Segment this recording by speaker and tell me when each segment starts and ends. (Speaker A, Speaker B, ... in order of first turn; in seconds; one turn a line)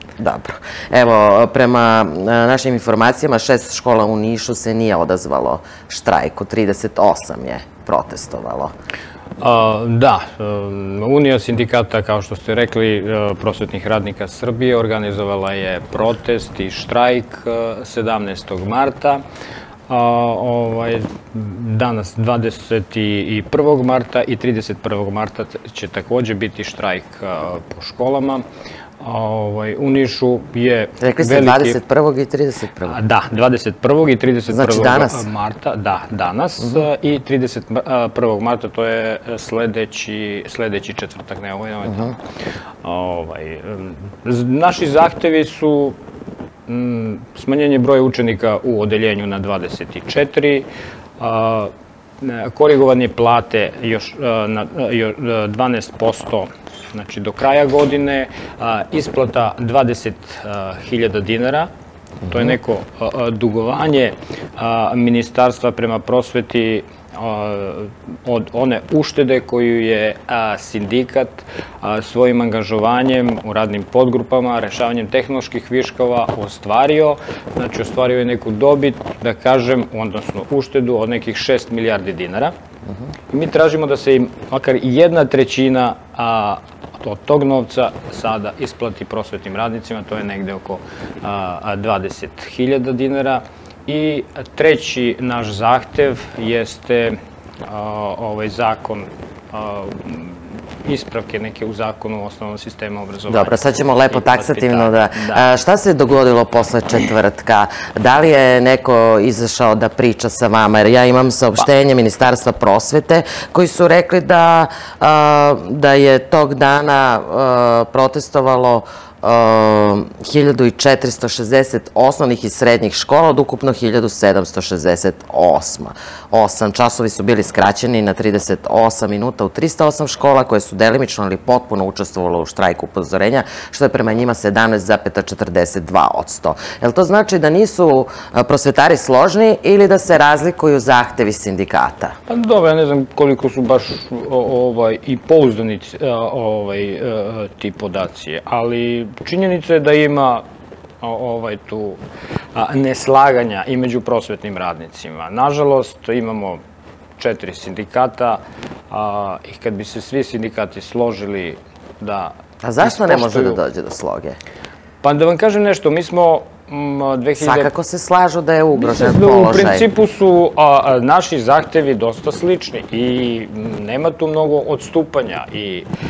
Speaker A: 0.2-8.7
Speaker B: 9.4-19.2
Speaker B: 19.9-28.4
Speaker B: 29.0-31.8
Speaker A: 31.0-33.0
Speaker B: 32.9-42.2
Speaker A: 34.5-35.2
Speaker A: 41.9-42.1
Speaker B: 42.8-46.0
Speaker B: 46.7-50.7
Speaker B: 51.2-61.7
Speaker B: 62.3-82.5
Speaker B: 83.3-105.4
Speaker A: 103.3-142.2
Speaker B: 142.3-150.4
Speaker B: 151.0-152.0
Speaker B: 152.5-156.6
Speaker B: 157.2-163.6
Speaker A: 162.6-164.4
Speaker B: 165.0-167.7
Speaker A: 167.4-169.8
Speaker B: 168.7-175.9